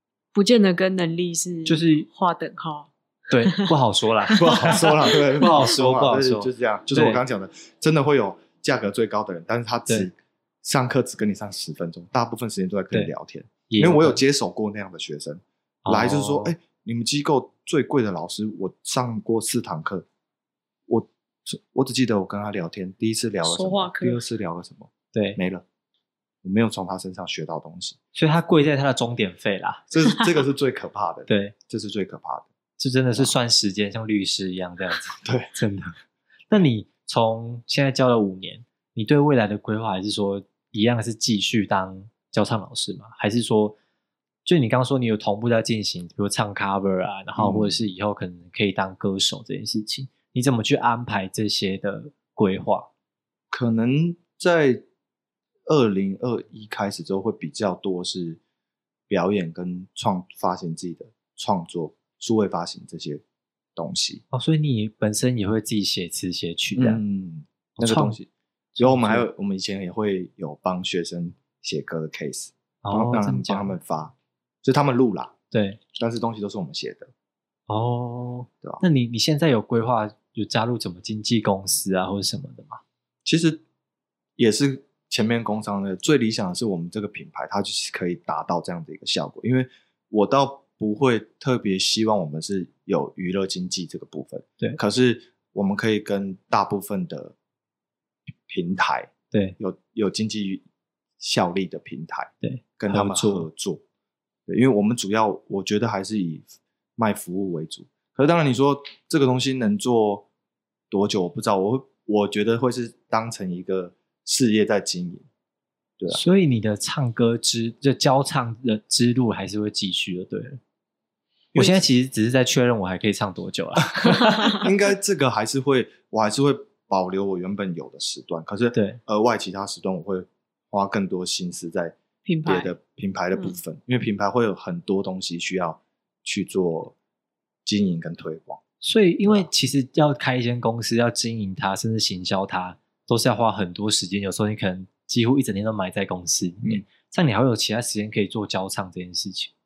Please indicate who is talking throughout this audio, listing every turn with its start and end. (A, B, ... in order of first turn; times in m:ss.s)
0:00.3-0:03.7 A
0:01.6-0:02.1 B
0:03.3-0:07.2 B
0:04.3-0:20.0 C
0:13.7-0:14.2 B
0:15.8-0:16.5 B
0:20.9-0:25.6 C
0:23.4-0:24.2 A
0:25.1-0:25.4 B
0:26.4-0:28.0 C
0:28.1-0:29.9 B
0:29.9-0:32.5 C
0:31.3-0:31.6 B
0:32.8-0:35.9 B
0:35.2-0:35.5 C
0:36.5-0:43.8 B
0:44.4-0:52.9 B
0:47.4-0:47.8 C
0:53.5-0:54.8 C
0:55.6-0:58.4 C
0:59.1-1:03.2 C
1:03.8-1:04.2 C
1:04.3-1:07.0 B
1:06.8-1:08.3 C
1:07.8-1:08.2 B
1:08.7-1:09.2 B
1:08.8-1:15.4 C
1:12.8-1:13.7 B
1:15.5-1:15.8 B
1:15.9-1:17.1 C
1:17.7-1:22.8 B
1:23.2-1:23.6 C
1:24.4-1:37.3 C
1:38.4-1:40.6 C
1:39.3-1:39.6 B
1:41.2-1:43.8 C
1:42.4-1:43.5 B
1:44.5-1:50.3 C
1:50.9-1:55.2 C
1:56.1-2:00.6 B
2:01.5-2:01.8 C
2:01.5-2:04.6 B
2:04.2-2:04.6 A
2:04.5-2:16.9 C
2:08.7-2:09.0 B
2:12.2-2:12.7 A
2:17.6-2:18.6 C
2:18.8-2:29.5 B
2:19.2-2:19.5 C